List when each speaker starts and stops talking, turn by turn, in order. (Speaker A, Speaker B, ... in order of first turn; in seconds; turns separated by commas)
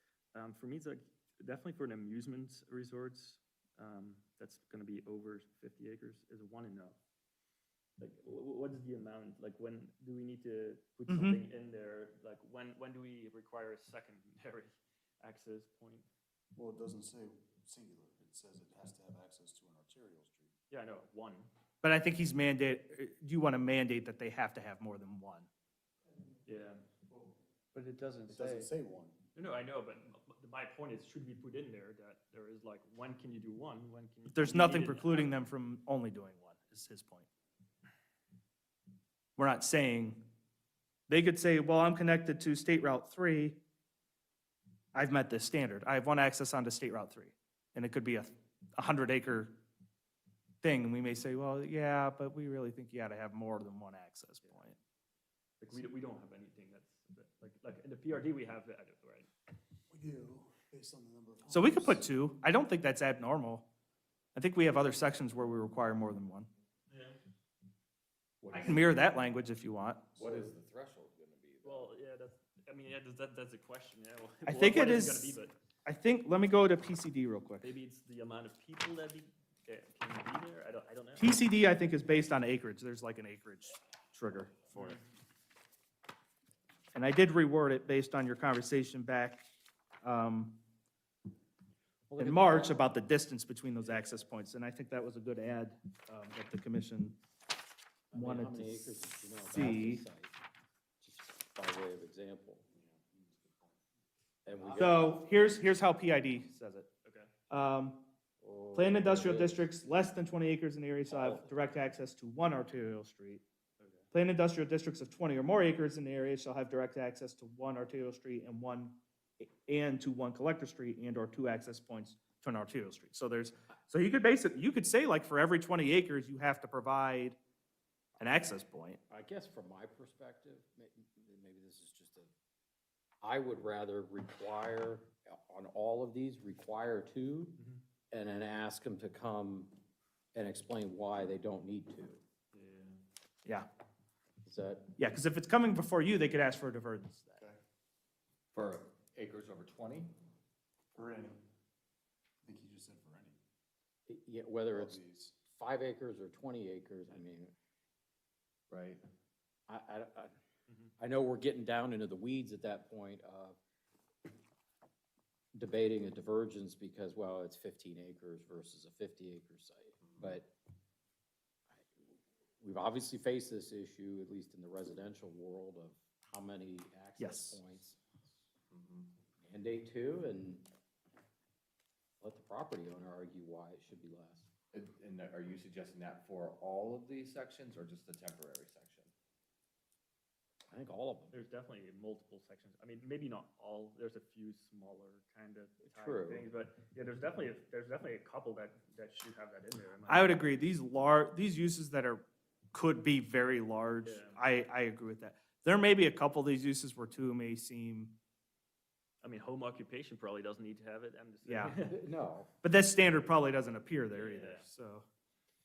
Speaker A: 0.3-7.0, Speaker A: 8.0-16.1, Speaker B: 11.1-11.4, Speaker C: 16.5-20.5, Speaker A: 20.7-21.5, Speaker B: 21.8-25.5, Speaker C: 26.1-26.4, Speaker A: 26.4-26.8, Speaker C: 27.1-27.3, Speaker D: 27.7-28.4, Speaker C: 28.3-29.2, Speaker A: 29.3-35.3, Speaker B: 34.3-37.3, Speaker B: 39.4-40.2, Speaker B: 41.1-43.6, Speaker B: 44.9-49.6, Speaker B: 50.6-54.8, Speaker A: 55.6-59.3, Speaker C: 59.9-62.0, Speaker B: 61.5-63.7, Speaker B: 64.3-66.5, Speaker A: 66.9-67.2, Speaker D: 68.4-69.0, Speaker B: 68.5-70.1, Speaker D: 70.1-71.9, Speaker A: 71.6-75.5, Speaker B: 74.4-77.7, Speaker A: 77.6-81.4, Speaker B: 81.2-85.0, Speaker A: 84.7-85.0, Speaker B: 86.9-89.4, Speaker B: 90.0-90.6, Speaker E: 92.1-92.9, Speaker B: 92.2-97.2, Speaker A: 93.8-94.2, Speaker E: 98.1-100.3, Speaker B: 98.1-98.9, Speaker B: 99.5-100.0, Speaker E: 101.0-102.6, Speaker C: 102.7-103.8, Speaker E: 104.4-105.2, Speaker C: 104.6-105.7, Speaker B: 104.8-106.9, Speaker A: 107.0-107.3, Speaker B: 107.5-108.0, Speaker E: 108.4-109.7, Speaker B: 108.7-113.4, Speaker E: 111.0-111.5, Speaker A: 113.8-114.1, Speaker B: 114.1-127.4, Speaker B: 128.2-129.0, Speaker E: 129.1-132.3, Speaker E: 133.2-137.6, Speaker A: 137.6-137.8, Speaker E: 138.1-139.7, Speaker E: 140.3-142.2, Speaker A: 142.5-143.0, Speaker E: 144.4-144.9, Speaker B: 145.0-147.4, Speaker D: 148.5-150.1, Speaker C: 150.9-151.4, Speaker C: 152.4-153.4, Speaker E: 154.1-157.5, Speaker C: 154.7-155.3, Speaker D: 158.7-159.0, Speaker E: 159.7-160.3, Speaker A: 160.7-160.9, Speaker E: 161.0-163.6, Speaker E: 165.5-170.5, Speaker D: 170.0-170.4, Speaker E: 171.7-178.0, Speaker B: 177.2-177.6, Speaker D: 178.7-179.1, Speaker E: 179.4-180.7, Speaker E: 182.2-184.5, Speaker D: 184.7-189.1, Speaker E: 190.7-191.3, Speaker A: 191.3-200.4, Speaker E: 195.9-196.4, Speaker B: 200.1-208.1, Speaker A: 204.0-204.4, Speaker A: 209.2-212.0, Speaker B: 211.4-211.8, Speaker E: 211.8-212.5, Speaker B: 212.6-215.1, Speaker A: 214.1-214.7